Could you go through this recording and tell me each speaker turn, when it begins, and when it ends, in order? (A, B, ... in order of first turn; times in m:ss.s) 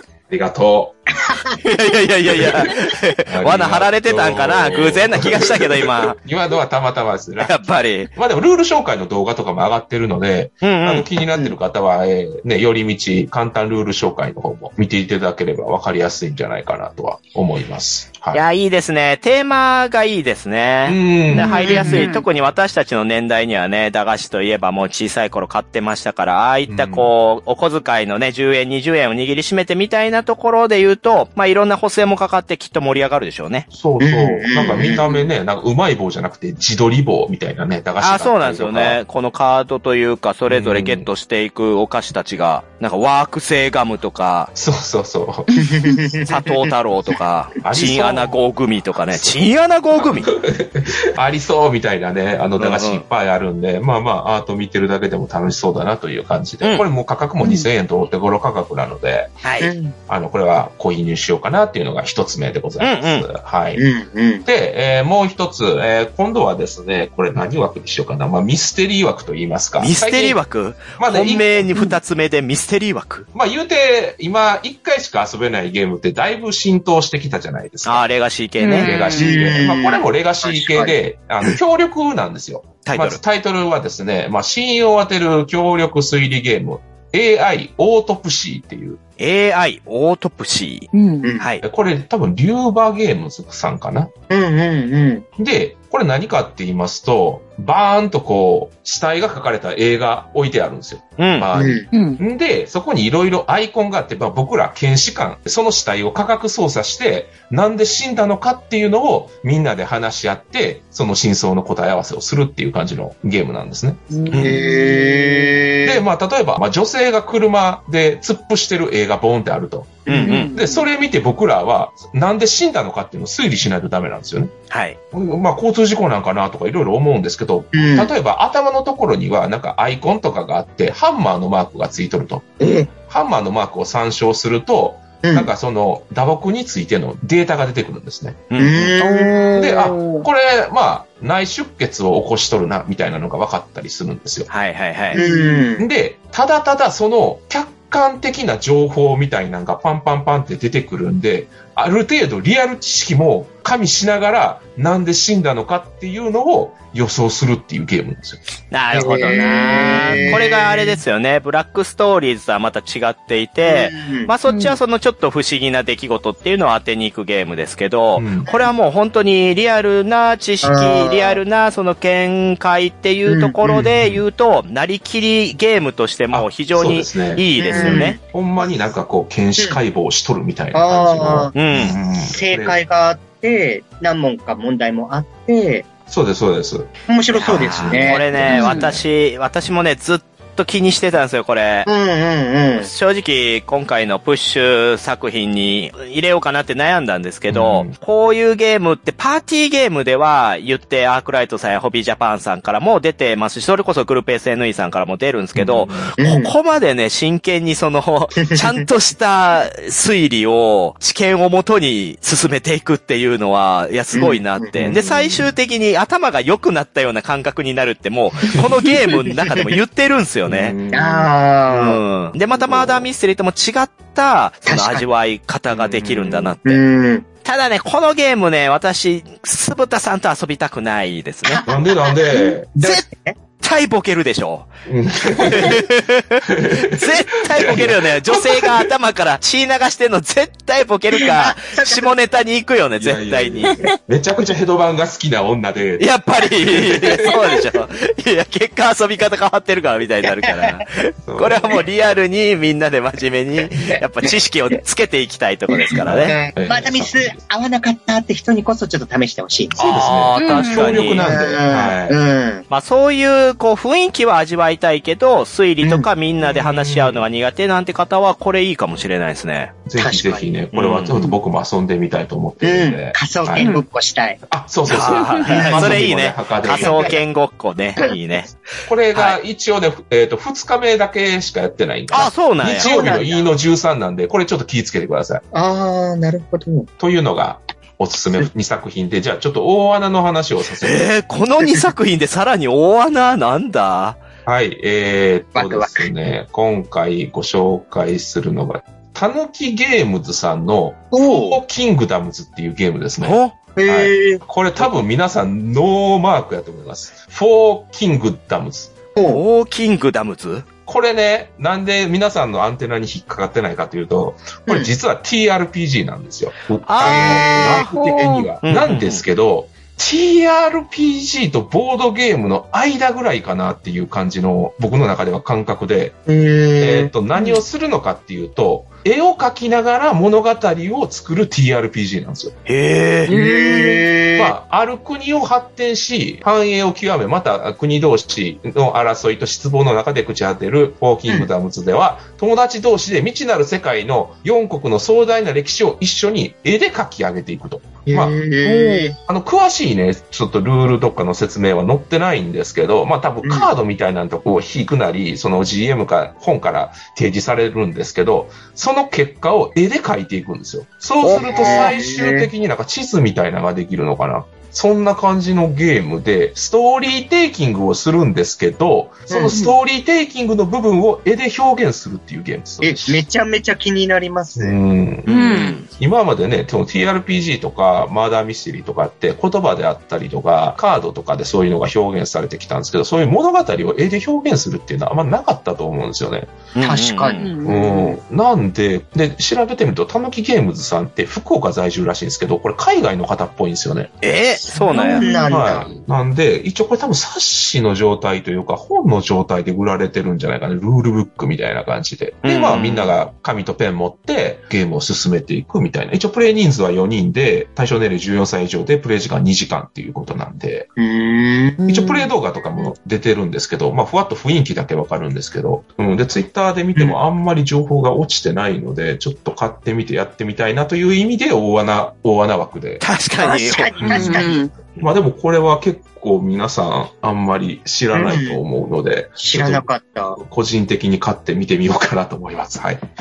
0:00.3-0:01.0 A
0:01.6-0:06.2 B
0:02.3-0:07.6 A
0:07.4-0:08.1 B
0:08.1-0:18.4 A
0:10.6-0:11.1 B
0:18.3-0:33.6 B
0:20.8-0:22.0 A
0:21.4-0:22.2 C
0:26.7-0:27.1 A
0:33.7-0:39.0 A
0:34.0-0:35.2 D
0:38.0-0:44.5 B
0:40.5-0:41.1 A
0:44.6-0:45.6 A
0:45.6-0:46.4 D
0:46.2-0:50.3 B
0:47.6-0:48.4 A
0:48.9-0:49.4 A
0:50.0-0:59.4 A
0:52.6-0:53.0 B
0:59.4-0:59.7 B
0:59.6-0:59.9 D
1:00.1-1:03.8 A
1:02.8-1:03.3 B
1:03.8-1:04.4 D
1:04.4-1:10.4 A
1:09.8-1:13.3 B
1:11.0-1:11.7 A
1:13.3-1:18.0 A
1:17.8-1:19.0 B
1:18.6-1:19.4 C
1:18.8-1:29.0 A
1:19.2-1:20.9 D
1:22.8-1:23.2 B
1:29.2-1:31.6 B
1:30.9-1:31.3 C
1:31.6-1:34.1 A
1:34.3-1:35.2 D
1:35.4-1:54.7 A
1:41.2-1:41.5 B
1:41.5-1:41.9 D
1:41.9-1:42.2 C
1:54.1-1:55.6 C
1:54.3-1:56.0 D
1:55.8-2:04.5 A
2:00.1-2:00.5 D
2:00.1-2:00.5 B
2:00.3-2:00.8 C
2:04.7-2:05.0 B
2:05.1-2:18.5 A
2:07.7-2:08.1 D
2:12.6-2:12.9 D
2:15.2-2:15.5 D
2:18.5-2:18.9 B
2:18.6-2:19.8 D
2:19.0-2:20.2 C
2:19.5-2:24.5 A
2:24.5-2:25.2 B
2:25.1-2:25.9 D
2:25.2-2:25.6 C
2:25.8-2:38.4 A
2:38.7-2:58.2 B
2:38.9-2:41.0 D
2:40.0-2:40.4 A
2:43.6-2:44.3 D
2:44.5-2:44.8 C
2:48.1-2:48.5 A
2:50.6-2:51.4 D
2:53.2-2:53.8 D
2:53.7-2:54.2 A
2:56.3-3:02.8 A
2:57.6-2:58.2 D
3:00.7-3:01.6 D
3:01.5-3:02.0 B
3:02.2-3:05.9 D
3:06.1-3:09.0 A
3:07.1-3:08.5 D
3:07.3-3:11.9 B
3:08.5-3:08.9 C
3:11.9-3:12.9 D
3:12.8-3:40.8 B
3:17.5-3:17.9 A
3:25.6-3:26.1 A
3:26.2-3:26.5 D
3:34.1-3:34.7 D
3:34.7-3:35.5 A
3:38.5-3:38.8 A
3:40.4-3:41.3 A
3:40.9-3:42.0 D
3:41.7-3:46.8 B
3:42.6-3:43.1 A
3:44.6-3:45.0 D
3:45.7-3:46.6 A
3:46.6-3:47.2 D
3:47.4-3:51.6 B
3:51.4-3:53.4 D
3:51.6-3:52.7 A
3:52.8-3:53.0 B
3:53.6-3:54.7 B
3:54.9-3:55.8 A
3:55.4-4:03.8 B
3:56.4-3:58.9 A
4:01.2-4:02.1 D
4:03.0-4:07.3 A
4:06.0-4:16.4 B
4:10.2-4:10.8 D
4:11.2-4:11.8 A
4:15.7-4:19.8 D
4:15.9-4:17.4 A
4:19.8-4:22.2 A
4:19.8-4:21.3 B
4:20.4-4:21.0 C
4:21.2-4:22.6 D
4:22.7-4:29.7 B
4:25.8-4:26.1 D
4:26.4-4:27.2 A
4:29.8-4:33.7 A
4:30.0-4:30.5 D
4:30.7-4:31.2 B
4:32.6-4:34.4 D
4:33.6-4:33.8 C
4:34.5-4:37.2 A
4:34.9-4:38.6 B
4:35.6-4:36.0 D
4:36.7-4:37.2 D
4:38.8-4:45.4 A
4:39.1-4:39.4 B
4:42.1-4:42.9 B
4:42.6-4:43.5 D
4:45.5-4:46.9 D
4:47.0-4:51.1 A
4:50.8-4:54.2 B
4:54.4-5:08.9 A
4:55.6-4:56.1 D
5:01.1-5:01.6 D
5:03.2-5:03.6 B
5:03.8-5:04.9 D
5:09.1-5:09.4 D
5:09.2-5:10.6 B
5:10.9-5:26.2 A
5:16.9-5:19.2 B
5:17.0-5:17.9 D
5:26.3-5:27.1 D
5:26.8-5:32.6 A
5:32.7-5:33.3 B
5:33.3-5:34.5 D
5:33.3-5:34.1 C
5:34.3-6:13.2 A
5:48.1-5:49.1 D
6:01.2-6:02.5 D
6:09.3-6:09.7 D
6:12.8-6:14.8 D
6:14.6-6:26.5 A
6:15.3-6:15.9 B
6:15.3-6:15.8 C
6:26.7-6:27.5 B
6:26.8-6:28.2 D
6:27.4-6:27.9 C
6:27.6-6:34.1 A
6:34.2-6:35.2 B
6:34.9-6:35.5 C
6:34.9-6:35.9 D
6:35.5-6:50.9 A
6:42.4-6:43.1 B
6:51.0-6:52.0 D
6:51.9-7:03.0 A
7:03.0-7:04.4 B
7:03.4-7:04.6 D
7:04.0-7:04.4 A
7:04.1-7:04.7 C
7:05.0-7:13.1 A
7:08.1-7:08.6 D
7:09.4-7:10.4 D